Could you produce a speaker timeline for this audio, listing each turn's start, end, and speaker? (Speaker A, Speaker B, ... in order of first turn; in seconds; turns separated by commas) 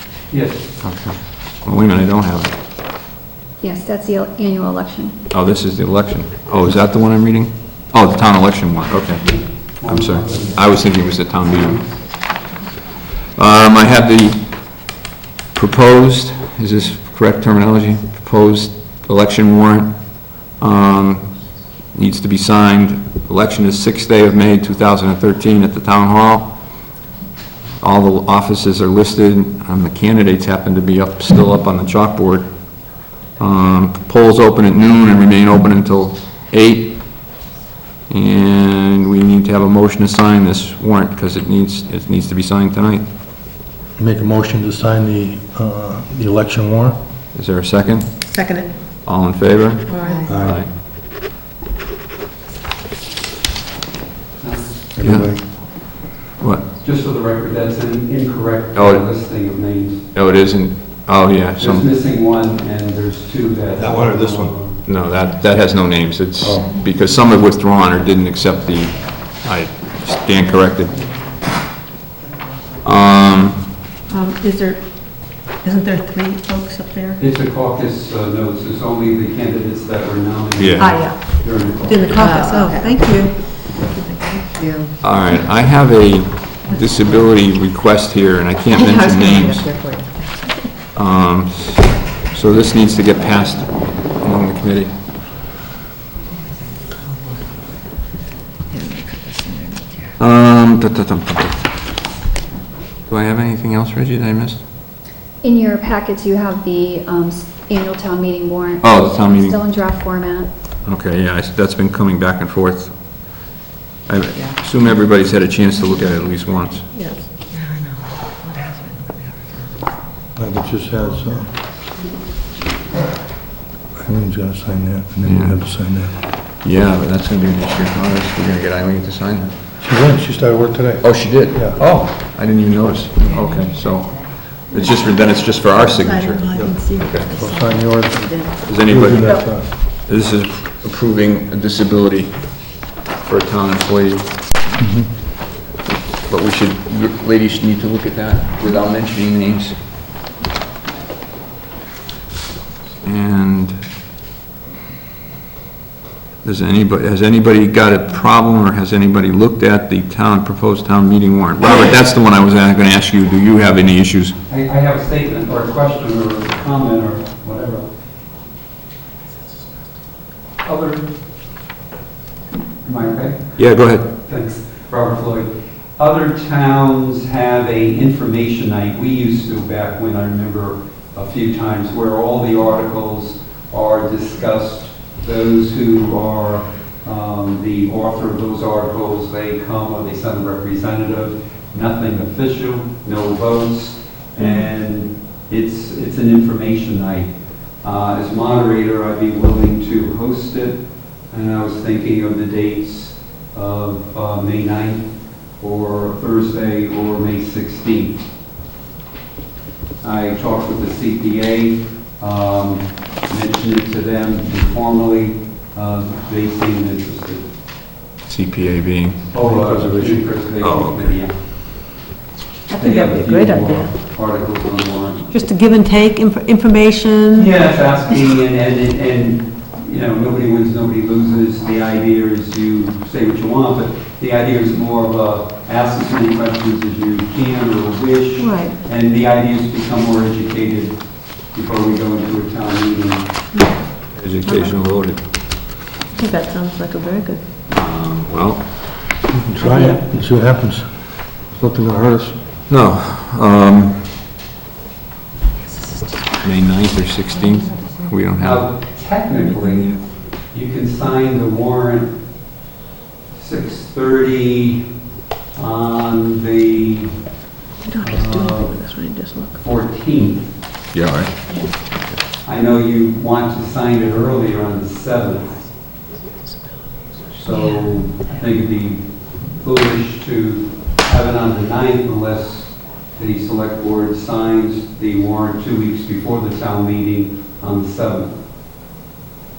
Speaker A: 0.3-0.7, Speaker B: 0.8-2.5, Speaker C: 3.6-5.2, Speaker B: 5.3-11.8, Speaker A: 9.2-11.9, Speaker B: 13.3-14.9, Speaker B: 15.5-26.7, Speaker B: 27.8-32.7, Speaker B: 33.4-37.3, Speaker B: 38.1-43.1, Speaker D: 44.0-47.0, Speaker B: 47.3-48.3, Speaker E: 48.3-48.8, Speaker B: 49.0-50.7, Speaker E: 49.9-50.3, Speaker D: 50.3-50.7, Speaker A: 54.4-54.7, Speaker D: 54.9-55.5, Speaker B: 55.0-55.6, Speaker A: 56.8-60.0, Speaker B: 58.8-59.0, Speaker B: 60.1-61.9, Speaker A: 61.6-64.8, Speaker D: 63.7-64.5, Speaker B: 64.9-71.1, Speaker B: 72.8-73.7, Speaker E: 74.1-77.2, Speaker A: 77.2-82.4, Speaker B: 80.6-80.9, Speaker E: 80.8-84.0, Speaker F: 82.2-83.1, Speaker F: 84.3-84.9, Speaker B: 85.0-89.7, Speaker F: 88.7-90.5, Speaker B: 90.9-95.0, Speaker F: 98.7-100.1, Speaker B: 100.2-101.7, Speaker B: 103.1-104.6, Speaker C: 105.4-110.5, Speaker B: 108.8-109.6, Speaker B: 110.8-113.4, Speaker B: 114.1-116.9, Speaker E: 116.9-117.2, Speaker F: 117.4-119.4, Speaker D: 120.4-121.5, Speaker D: 124.0-126.2, Speaker B: 125.2-125.9, Speaker B: 126.5-129.5, Speaker D: 129.8-131.8, Speaker B: 131.0-137.3, Speaker E: 135.7-138.6, Speaker D: 136.5-139.7, Speaker B: 138.7-144.5, Speaker D: 144.8-145.1, Speaker B: 146.1-149.8, Speaker B: 153.0-153.8, Speaker B: 156.4-164.3, Speaker A: 164.5-167.8, Speaker A: 170.6-171.1, Speaker A: 172.8-197.3, Speaker B: 173.6-174.1, Speaker A: 197.8-205.1, Speaker A: 205.6-208.2, Speaker A: 210.0-217.4, Speaker B: 218.3-221.2, Speaker A: 219.3-221.3, Speaker E: 222.7-223.9, Speaker A: 222.7-225.3, Speaker E: 225.3-227.5, Speaker A: 227.3-241.0, Speaker E: 238.4-238.8, Speaker A: 241.5-243.3, Speaker E: 243.5-244.8, Speaker B: 244.1-245.2, Speaker E: 246.1-247.4, Speaker B: 247.7-248.8, Speaker D: 249.3-252.4, Speaker E: 249.6-250.0, Speaker B: 252.7-254.2, Speaker B: 256.4-258.7, Speaker A: 258.4-262.1, Speaker A: 263.3-264.8, Speaker A: 265.6-267.2, Speaker E: 267.8-269.6, Speaker A: 268.0-268.9, Speaker A: 269.6-270.5, Speaker B: 270.9-271.4, Speaker A: 272.4-275.7, Speaker A: 277.3-288.3